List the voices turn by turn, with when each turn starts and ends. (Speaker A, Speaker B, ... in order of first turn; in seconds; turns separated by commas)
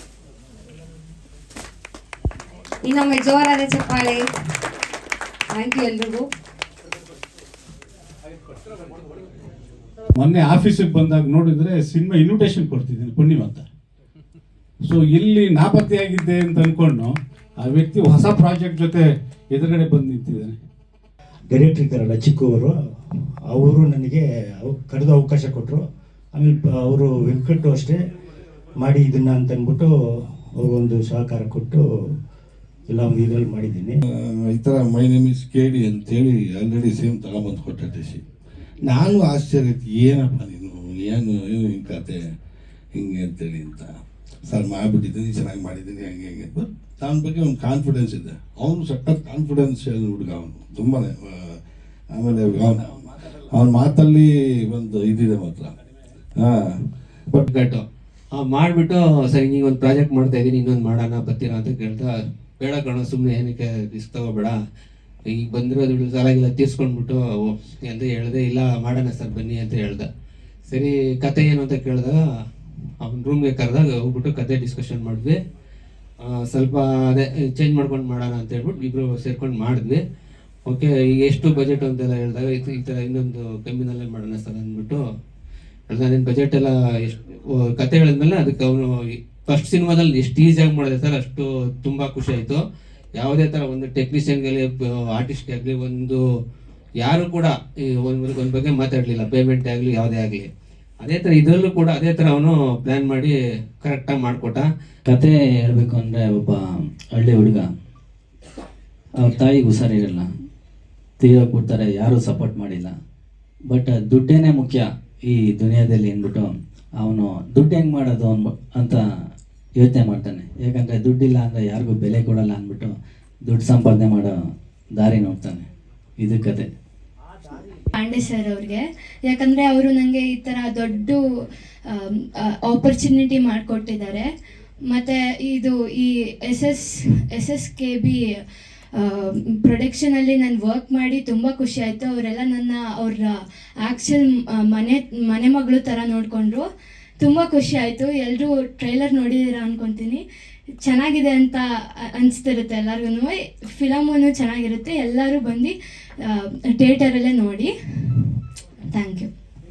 Speaker A: 2.8-4.3, Speaker A: 5.5-6.3, Speaker B: 10.1-13.7, Speaker B: 14.8-20.6, Speaker C: 21.5-22.8, Speaker C: 23.5-28.0, Speaker C: 28.8-29.9, Speaker C: 30.6-31.8, Speaker C: 32.9-34.0, Speaker D: 34.1-38.2, Speaker D: 38.9-42.2, Speaker D: 43.0-43.9, Speaker D: 44.5-51.6, Speaker D: 52.1-53.0, Speaker D: 53.5-55.7, Speaker D: 56.4-56.7, Speaker E: 57.5-57.8, Speaker E: 58.4-64.5, Speaker E: 65.3-70.1, Speaker E: 70.7-72.2, Speaker E: 73.0-75.4, Speaker E: 76.2-80.0, Speaker E: 80.6-85.0, Speaker E: 85.9-88.9, Speaker E: 89.5-92.6, Speaker E: 93.2-96.2, Speaker E: 97.0-100.5, Speaker E: 101.0-104.6, Speaker F: 105.1-107.7, Speaker F: 109.2-110.3, Speaker F: 111.2-112.9, Speaker F: 113.7-119.0, Speaker F: 119.8-122.9, Speaker F: 123.5-124.3, Speaker F: 125.0-125.7, Speaker F: 126.2-126.7, Speaker G: 127.9-131.2, Speaker G: 131.9-134.3, Speaker G: 134.9-138.2, Speaker G: 138.9-146.7, Speaker G: 147.2-150.2, Speaker G: 150.8-158.3, Speaker G: 158.9-159.3